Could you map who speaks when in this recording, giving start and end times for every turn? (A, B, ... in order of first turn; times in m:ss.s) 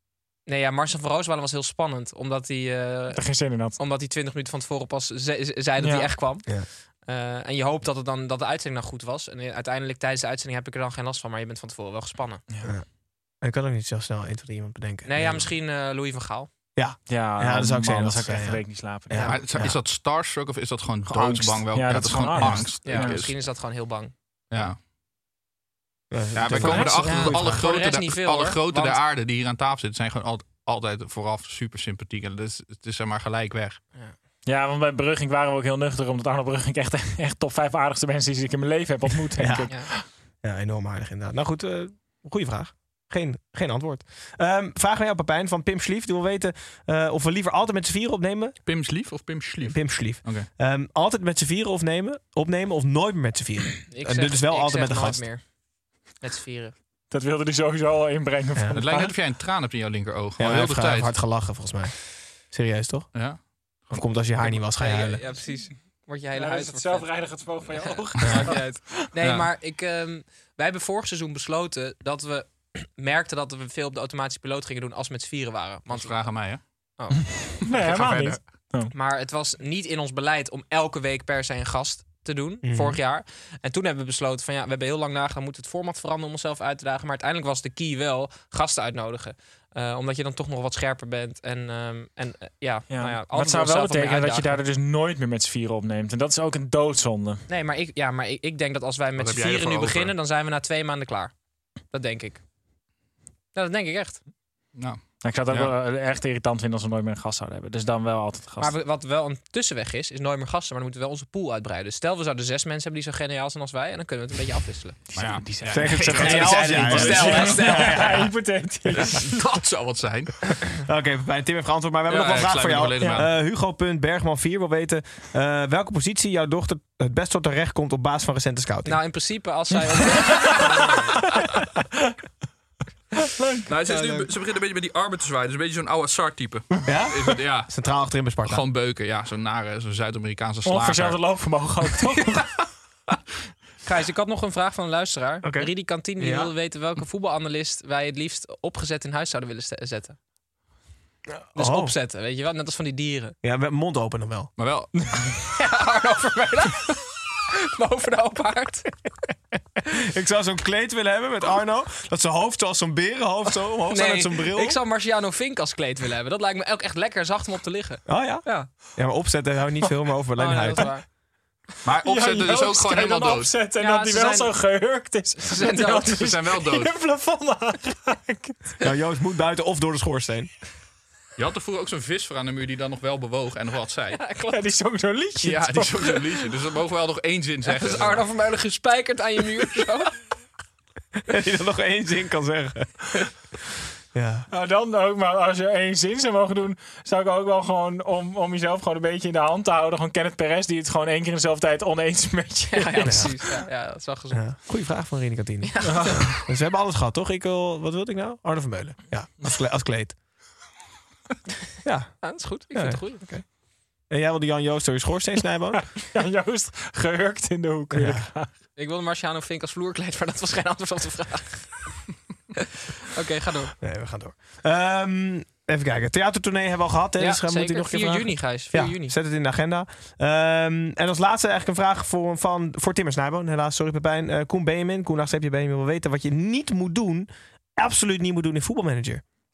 0:00.5-0:12.4 A
0:03.1-0:03.8 B
0:05.8-0:06.2 B
0:13.4-0:15.5 C
0:15.0-0:16.5 A
0:16.8-0:19.8 C
0:17.1-0:19.7 B
0:19.2-0:23.3 D
0:21.0-0:23.2 B
0:22.8-0:24.1 A
0:24.5-0:24.8 D
0:26.1-0:27.6 C
0:26.3-0:33.8 D
0:26.6-0:27.6 B
0:27.0-0:29.0 A
0:34.4-0:40.0 B
0:39.4-0:39.7 C
0:40.4-0:48.6 C
0:48.6-0:50.5 D
0:49.6-0:55.2 C
0:53.9-0:55.4 A
0:56.2-0:56.7 A
0:57.1-0:59.1 B
0:58.6-0:58.8 C
0:58.7-1:01.2 D
1:00.4-1:03.1 C
1:03.1-1:03.4 D
1:03.9-1:05.2 C
1:04.4-1:07.1 A
1:06.3-1:09.1 B
1:07.6-1:16.3 A
1:09.2-1:09.5 D
1:15.9-1:16.6 D
1:17.0-1:17.3 A
1:17.1-1:18.9 B
1:17.6-1:18.4 D
1:18.8-1:34.6 A
1:22.6-1:23.0 C
1:32.9-1:37.4 B
1:37.5-1:41.3 A
1:39.2-1:40.1 D
1:41.9-1:42.4 A
1:43.5-1:44.2 A
1:44.7-1:45.7 D
1:45.2-1:48.8 B
1:48.6-1:55.0 A
1:55.1-1:57.9 D
1:55.1-1:59.3 B
1:55.6-1:58.3 C
1:56.2-1:58.1 A
1:58.9-2:00.4 D
2:00.6-2:09.0 C
2:02.1-2:03.3 D
2:03.0-2:03.3 B
2:08.8-2:11.2 A
2:11.3-2:11.8 B
2:13.4-2:13.6 B
2:13.7-2:17.7 D
2:13.8-2:14.3 A
2:16.8-2:18.6 C
2:18.4-2:21.2 D
2:20.6-2:22.5 B
2:22.1-2:22.4 A
2:23.8-2:30.2 A
2:25.4-2:26.5 C
2:31.4-2:31.9 C
2:31.5-2:33.3 A
2:33.4-2:34.5 C
2:34.6-2:34.9 D
2:35.4-2:38.9 A
2:40.0-2:44.8 C
2:43.9-2:48.7 A
2:48.1-2:50.9 C
2:50.4-2:51.0 A
2:51.8-2:53.5 D
2:51.9-2:58.6 B
2:53.8-2:54.5 A
2:55.4-2:56.3 A
2:56.3-2:56.9 D
2:58.8-3:00.5 C
3:01.4-3:04.2 D
3:04.1-3:04.7 A
3:04.5-3:06.2 B
3:05.4-3:08.3 D
3:07.6-3:10.1 A
3:11.3-3:13.0 C
3:14.1-3:14.4 C
3:14.5-3:23.7 B
3:22.7-3:24.4 A
3:23.0-3:23.4 C
3:24.3-3:30.2 C
3:25.6-3:26.4 A
3:25.8-3:26.3 B
3:31.8-3:33.4 C
3:32.2-3:33.2 A
3:34.1-3:35.9 C
3:35.7-3:38.5 B
3:37.9-3:38.3 C
3:38.8-3:41.9 A
3:42.6-3:43.7 A
3:43.8-3:59.2 C
3:47.2-3:49.2 A